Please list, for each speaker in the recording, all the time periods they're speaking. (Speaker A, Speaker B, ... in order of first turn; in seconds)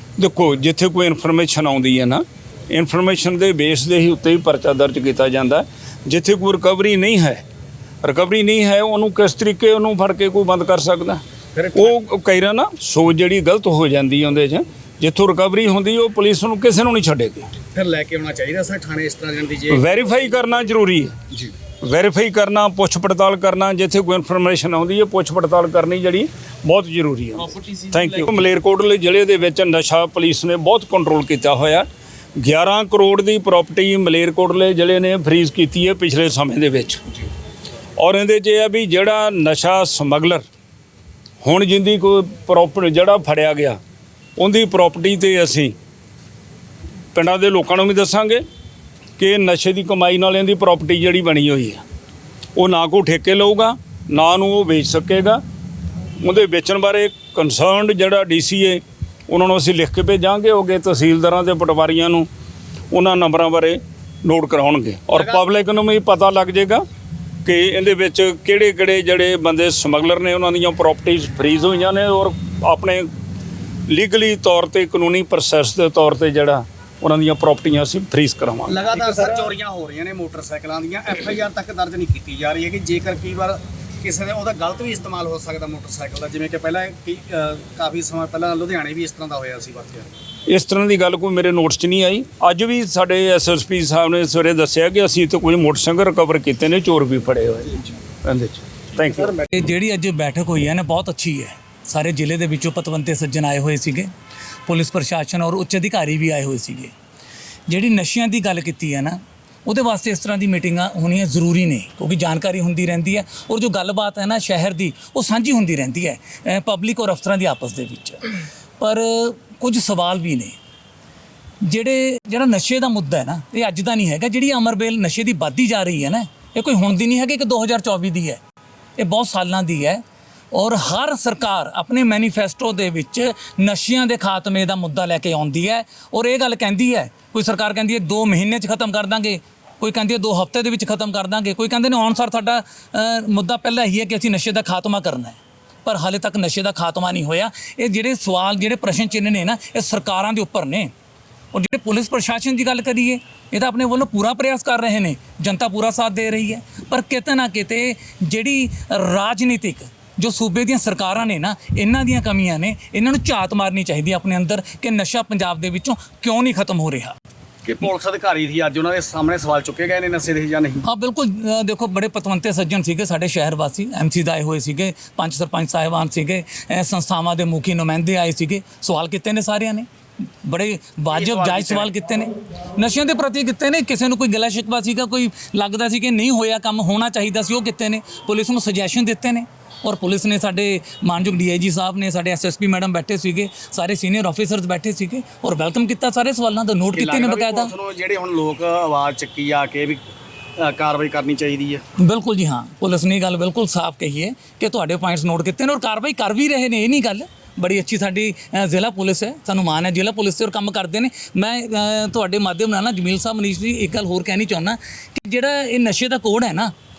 Speaker A: 0.2-7.4, 8.0-11.2, 11.7-17.5, 19.7-21.1, 21.8-37.2, 38.0-40.4, 41.4-43.8, 44.4-45.7, 47.1-48.4, 49.2-51.8, 52.5-55.4, 56.2-62.3, 62.9-66.8, 67.4-73.1, 73.9-78.9, 90.5-99.3
Speaker B: 11.5-12.0, 17.7-20.1, 65.1-65.5, 78.7-90.1, 99.1-99.5, 167.6-170.8, 181.1-181.9, 196.9-200.0, 200.6-201.8
Speaker C: 99.5-104.1, 104.7-106.9, 107.7-120.5, 121.6-128.4, 129.0-150.9, 151.5-167.2, 170.8-179.9, 180.4-197.7, 202.0-216.7